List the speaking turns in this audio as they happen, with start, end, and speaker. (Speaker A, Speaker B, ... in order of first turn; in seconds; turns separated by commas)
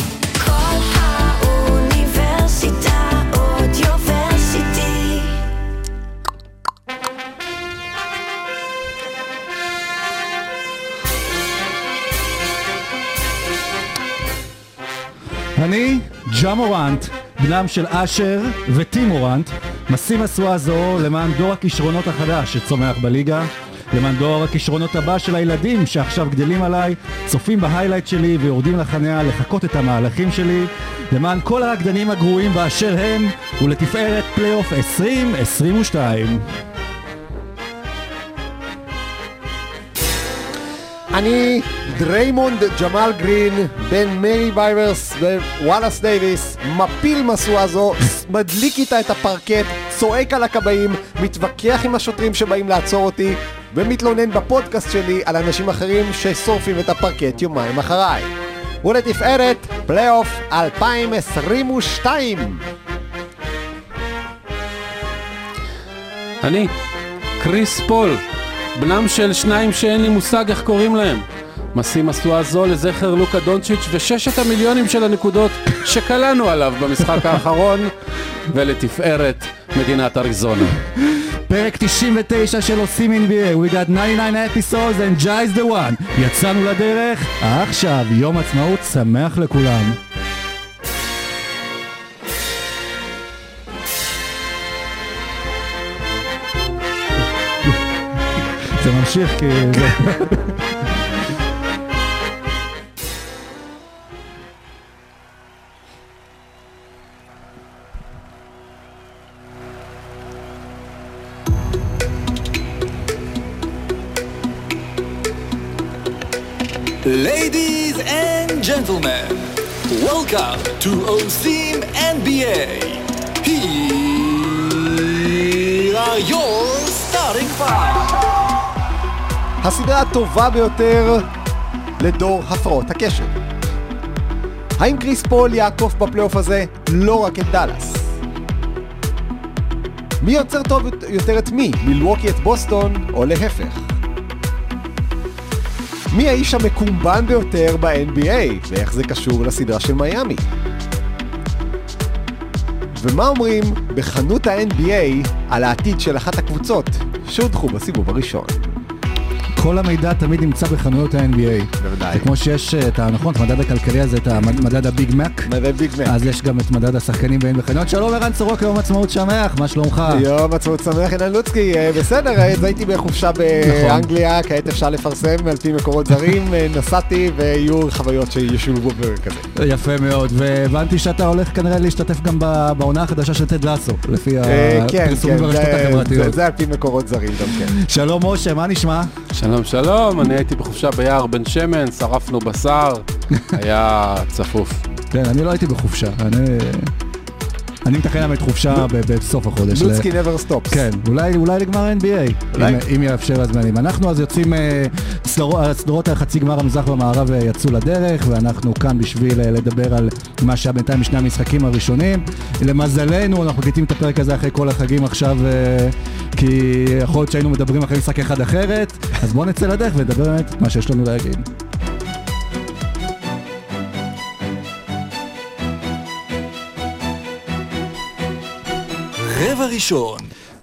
Speaker A: 0.4-5.5, Speaker B: 15.6-36.4, Speaker C: 41.1-58.3, Speaker C: 58.8-62.6, Speaker D: 66.4-66.7, Speaker D: 67.4-68.2, Speaker D: 68.8-80.8, Speaker B: 81.0-90.0, Speaker B: 98.7-100.8, Speaker E: 117.0-128.3, Speaker C: 129.6-131.3, Speaker C: 132.0-133.3, Speaker C: 134.8-138.1, Speaker C: 140.2-143.9, Speaker C: 146.1-150.4, Speaker C: 152.9-158.7, Speaker B: 159.6-165.5, Speaker C: 161.8-162.3, Speaker C: 165.5-166.2, Speaker B: 166.1-170.3, Speaker C: 170.1-179.5, Speaker B: 173.6-174.1, Speaker B: 179.6-186.4, Speaker C: 184.4-187.8, Speaker B: 187.5-189.1, Speaker D: 189.3-194.8, Speaker B: 195.1-196.9, Speaker B: 197.8-200.1, Speaker C: 199.7-200.8, Speaker B: 200.7-221.5, Speaker C: 202.5-202.8, Speaker E: 229.2-230.3